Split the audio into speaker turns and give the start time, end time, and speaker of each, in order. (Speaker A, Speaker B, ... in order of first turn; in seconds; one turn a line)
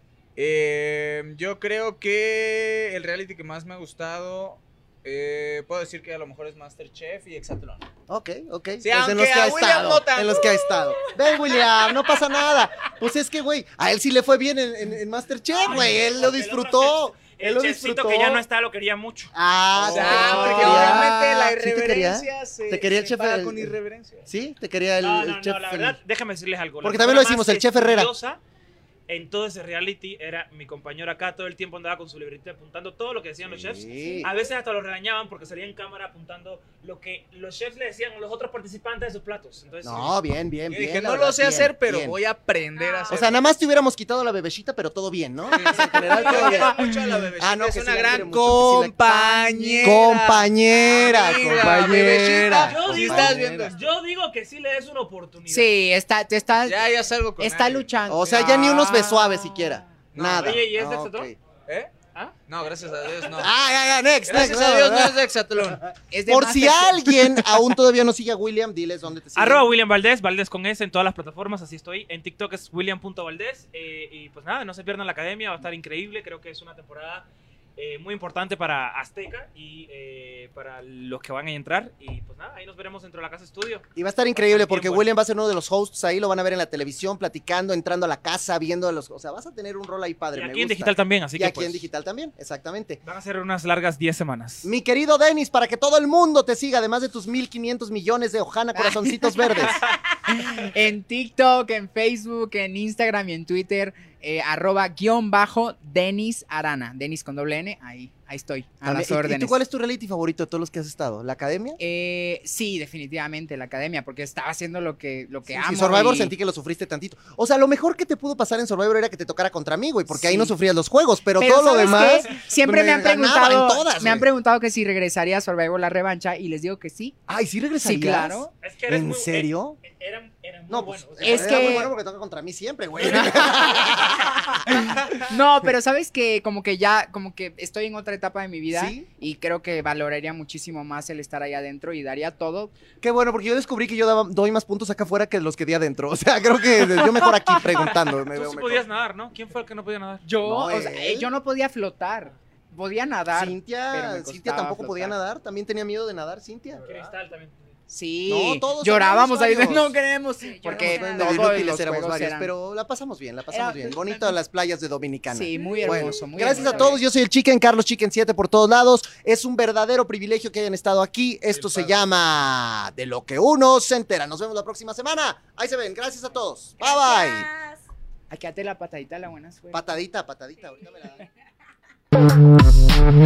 Speaker A: 0.4-7.8
Speaker B: 8.1-18.4
Speaker A: 8.8-10.7
Speaker C: 15.6-19.3
Speaker B: 19.3-23.8
Speaker A: 19.8-24.2
Speaker C: 19.8-20.8
Speaker D: 19.9-21.4
Speaker B: 24.3-26.0
Speaker C: 25.0-28.4
Speaker B: 26.8-28.1
Speaker C: 29.1-40.1
Speaker B: 33.5-34.3
Speaker B: 39.8-42.2
Speaker A: 40.7-43.3
Speaker E: 42.8-43.3
Speaker B: 43.1-46.8
Speaker A: 45.5-53.8
Speaker D: 46.0-46.9
Speaker C: 46.3-46.6
Speaker B: 47.4-48.9
Speaker D: 49.0-50.0
Speaker B: 49.8-53.7
Speaker C: 52.5-55.7
Speaker D: 55.5-59.8
Speaker A: 56.6-57.9
Speaker B: 58.1-61.4
Speaker A: 60.1-60.6
Speaker C: 60.3-61.3
Speaker A: 61.7-61.9
Speaker A: 62.5-63.5
Speaker B: 63.4-65.2
Speaker A: 64.3-65.8
Speaker D: 66.1-67.4
Speaker B: 66.2-69.7
Speaker C: 69.3-85.1
Speaker B: 84.0-93.0
Speaker C: 90.3-91.8
Speaker C: 93.0-94.7
Speaker B: 94.6-99.8
Speaker D: 98.7-109.6
Speaker B: 108.8-111.8
Speaker D: 111.8-116.3
Speaker B: 115.5-124.3
Speaker D: 120.1-120.5
Speaker D: 121.4-127.2
Speaker B: 127.3-129.8
Speaker D: 127.8-128.5
Speaker C: 128.6-131.8
Speaker B: 130.7-135.0
Speaker D: 131.2-131.9
Speaker D: 133.1-134.0
Speaker D: 135.1-142.7
Speaker B: 138.7-139.1
Speaker B: 143.0-148.9
Speaker C: 148.1-150.2
Speaker D: 150.2-155.2
Speaker B: 150.4-151.3
Speaker B: 153.3-156.8
Speaker A: 156.7-157.1
Speaker C: 156.8-157.6
Speaker D: 157.9-162.5
Speaker B: 158.3-160.0
Speaker E: 160.4-161.8
Speaker B: 160.7-177.5
Speaker D: 163.5-164.4
Speaker D: 165.3-167.0
Speaker E: 166.5-166.9
Speaker E: 176.8-177.8
Speaker D: 178.3-179.9
Speaker B: 179.7-181.2